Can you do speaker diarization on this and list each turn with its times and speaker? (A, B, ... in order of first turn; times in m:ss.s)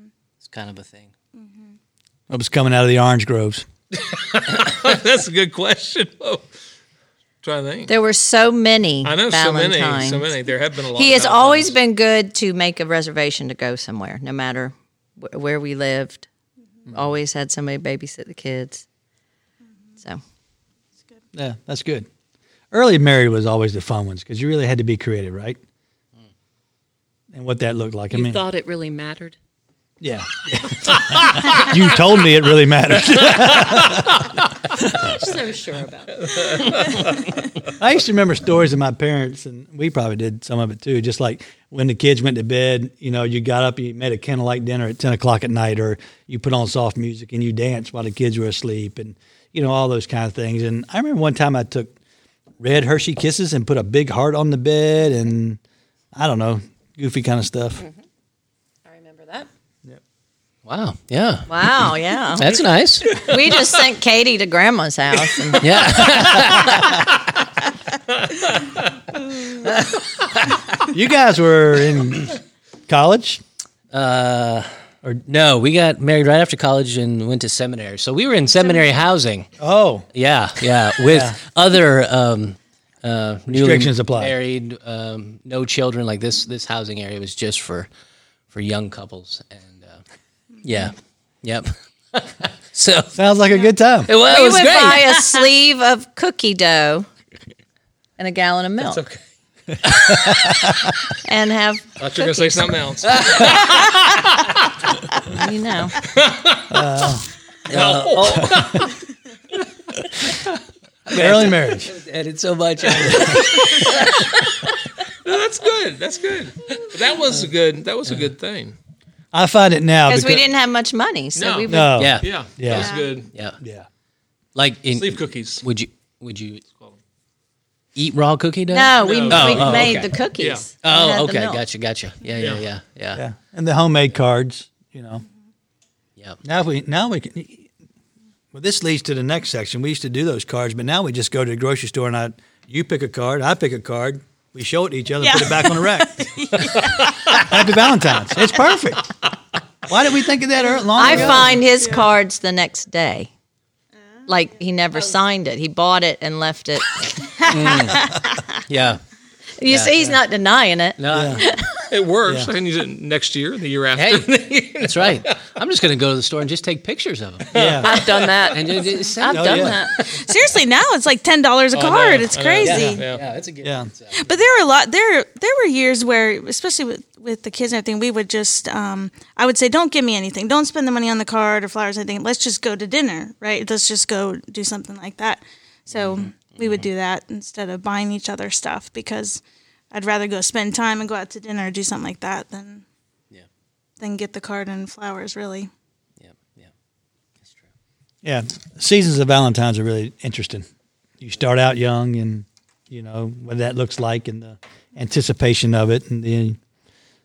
0:00.4-0:01.1 A
0:01.4-0:01.7 B
0:02.3-0:03.6 C
0:03.9-0:06.5 D
0:07.4-0:07.9 D
0:07.9-0:10.4 E
0:09.0-0:11.8 D
0:10.9-0:16.2 E
0:16.9-0:18.8 E
0:21.3-0:22.1 C
0:22.7-0:25.6 C
0:27.3-0:28.4 C
0:28.1-0:29.4 F
0:30.0-0:34.2 C
0:31.1-0:31.6 D
0:33.2-0:34.3 D
0:35.0-0:36.8 F
0:36.2-0:37.1 D
0:37.8-0:51.9 C
0:52.6-0:55.6 C
0:56.1-0:57.8 C
0:58.8-0:59.5 F
1:00.6-1:03.2 A
1:01.5-1:02.6 E
1:03.2-1:05.9 E
1:05.6-1:07.0 A
1:08.1-1:08.8 D
1:09.6-1:10.7 A
1:10.8-1:13.4 C
1:13.9-1:14.7 A
1:15.2-1:19.5 A
1:19.6-1:20.1 C
1:20.1-1:27.9 A
1:21.0-1:21.4 C
1:23.5-1:24.3 C
1:28.5-1:30.0 A
1:30.6-1:33.1 A
1:33.1-1:34.1 C
1:34.1-1:35.5 A
1:34.2-1:37.1 E
1:38.2-1:39.0 E
1:38.8-1:39.2 D
1:39.9-1:40.3 A
1:40.2-1:40.7 C
1:41.2-1:42.5 E
1:42.0-1:44.5 D
1:43.0-1:43.6 A
1:45.2-1:46.0 E
1:46.0-1:46.9 D
1:46.7-1:48.9 C
1:47.7-1:48.9 D
1:47.7-1:48.7 A
1:51.1-1:54.7 A
1:51.1-1:51.9 C
1:53.0-1:54.3 D
1:53.0-1:53.4 C
1:55.2-1:58.8 D
1:59.3-2:00.4 C
2:00.0-2:02.1 E
2:01.3-2:03.3 D
2:01.7-2:02.9 C
2:02.0-2:03.6 A
2:03.6-2:03.9 C
2:04.5-2:06.6 A
2:04.9-2:05.6 D
2:06.6-2:07.0 D
2:08.0-2:10.1 A
2:08.7-2:11.6 E
2:09.0-2:10.7 D
2:10.8-2:13.2 A
2:12.4-2:12.7 D
2:13.1-2:15.2 C
2:16.4-2:17.7 C
2:18.5-2:26.4 C
2:25.2-2:27.4 B
2:26.8-2:27.4 D
2:27.3-2:29.1 C
2:29.9-2:31.6 C
2:30.9-2:33.3 E
2:34.3-2:38.0 E
2:37.4-2:38.1 A
2:38.7-2:39.0 A
2:39.6-2:41.8 E
2:39.7-2:39.9 A
2:41.0-2:41.4 A
2:41.1-2:41.4 C
2:41.9-2:45.4 D
2:43.9-2:47.5 A
2:47.5-2:48.5 D
2:47.5-2:47.9 C
2:47.8-2:50.0 F
2:48.5-2:50.4 A
2:49.3-2:49.8 C
2:50.1-2:53.0 B
2:51.7-2:53.2 D
2:52.6-2:54.4 A
2:53.6-2:53.9 C
2:54.2-3:12.8 B
3:05.9-3:06.9 A
3:14.0-3:15.7 B
3:16.2-3:16.7 A
3:18.2-3:20.6 C
3:21.2-3:26.6 C